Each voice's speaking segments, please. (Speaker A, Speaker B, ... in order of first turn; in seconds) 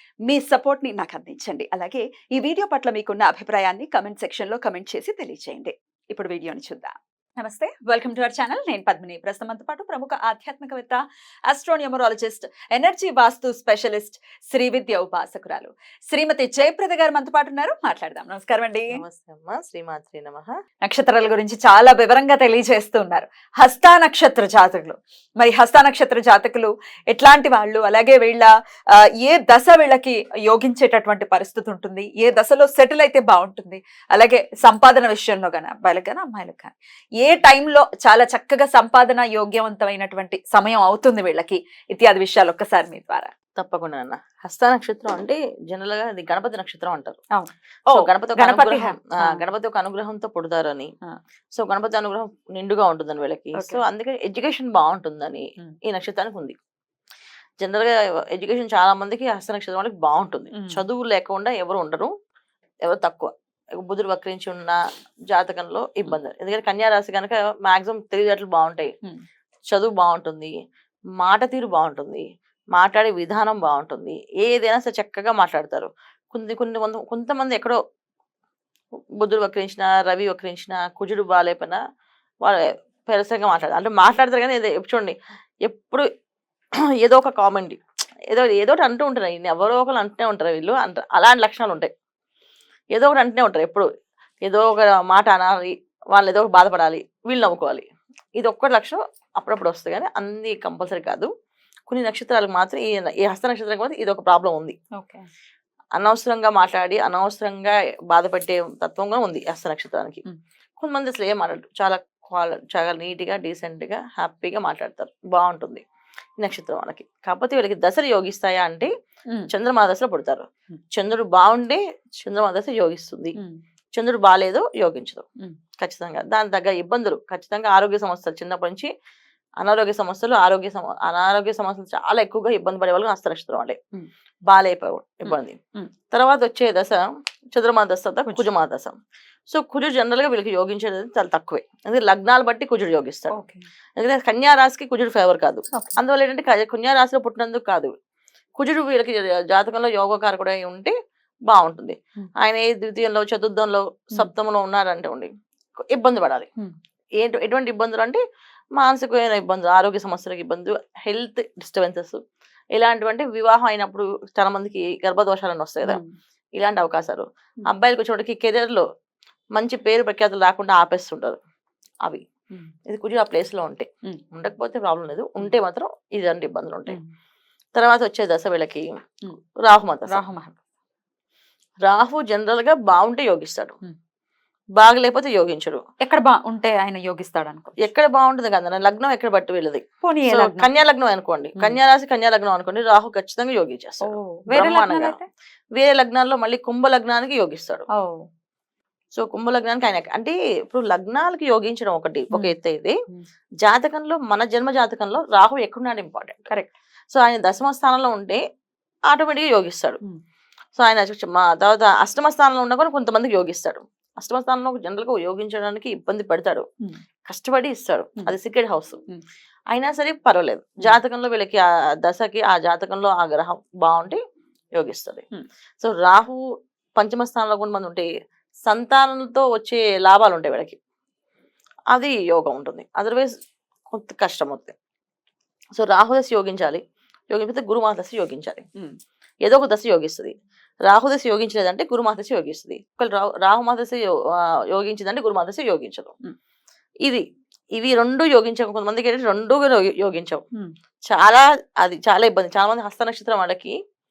Speaker A: 0.3-19.0, 20.9-43.3, 47.4-49.4, 53.6-53.8, 60.5-60.8, 105.0-105.3, 135.3-135.9, 143.3-143.7, 180.1-180.6, 186.0-187.9, 190.0-190.7, 194.0-195.2
Speaker B: 18.9-20.5, 43.6-47.2, 47.9-50.9, 51.6-56.6, 57.6-62.1, 62.9-64.8, 65.3-68.9, 69.7-70.5, 71.2-72.2, 72.8-77.8, 79.2-81.8, 82.4-86.0, 87.0-91.9, 92.9-93.9, 94.4-97.8, 98.4-101.3, 101.9-104.8, 106.0-110.2, 110.8-115.8, 116.4-118.9, 119.5-123.4, 124.0-125.3, 125.8-128.9, 129.6-133.8, 134.5-135.6, 136.1-139.0, 139.5-143.3, 144.0-147.9, 148.6-150.9, 151.5-155.3, 155.9-156.5, 157.2-158.2, 158.8-162.2, 162.8-166.0, 166.6-168.8, 169.6-171.4, 172.9-177.0, 177.8-178.9, 179.6-180.2, 181.8-183.8, 184.8-185.8, 187.8-195.2, 195.8-197.9, 199.2-203.0, 203.6-206.5, 207.1-208.4, 209.1-210.0, 210.8-216.7, 217.3-219.0, 219.7-224.2, 224.8-225.2, 225.8-226.4, 227.0-228.1, 228.7-230.8, 231.9-233.3, 233.9-234.7, 235.8-238.7, 239.4-246.1, 247.8-250.4, 251.1-253.8